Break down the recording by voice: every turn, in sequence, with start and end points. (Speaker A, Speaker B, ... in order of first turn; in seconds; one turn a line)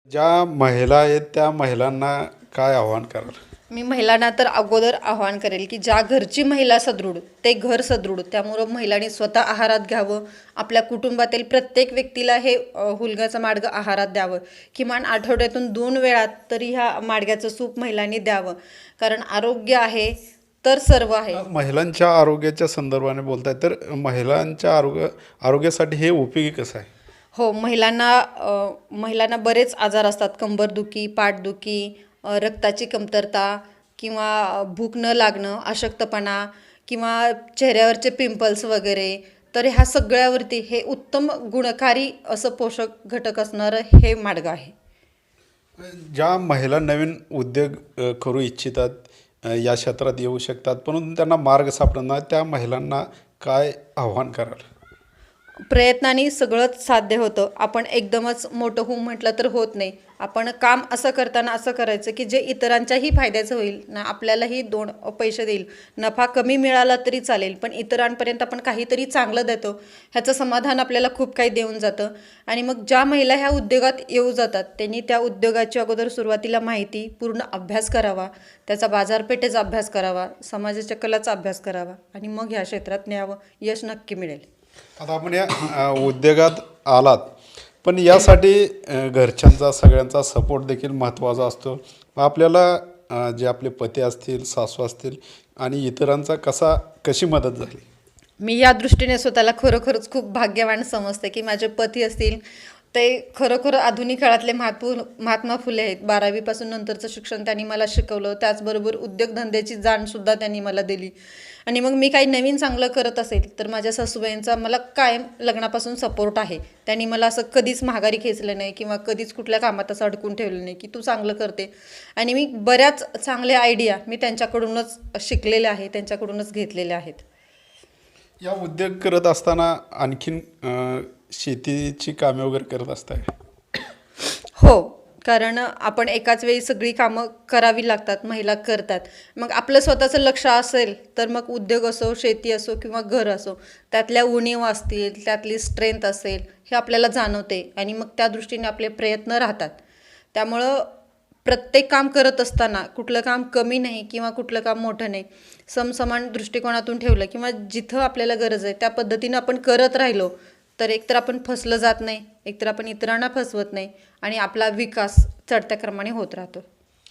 Speaker A: 0.1-3.4
Speaker B: 3.7-21.4
Speaker A: 21.3-26.9
Speaker B: 27.3-44.7
Speaker A: 45.8-54.6
Speaker B: 55.7-84.5
Speaker A: 85.0-87.3
Speaker A: 87.8-97.8
Speaker B: 98.4-102.4
Speaker B: 102.9-111.1
Speaker B: 111.7-127.2
Speaker A: 128.4-133.3
Speaker B: 134.6-149.8
Speaker B: 150.3-150.9
Speaker B: 151.4-166.7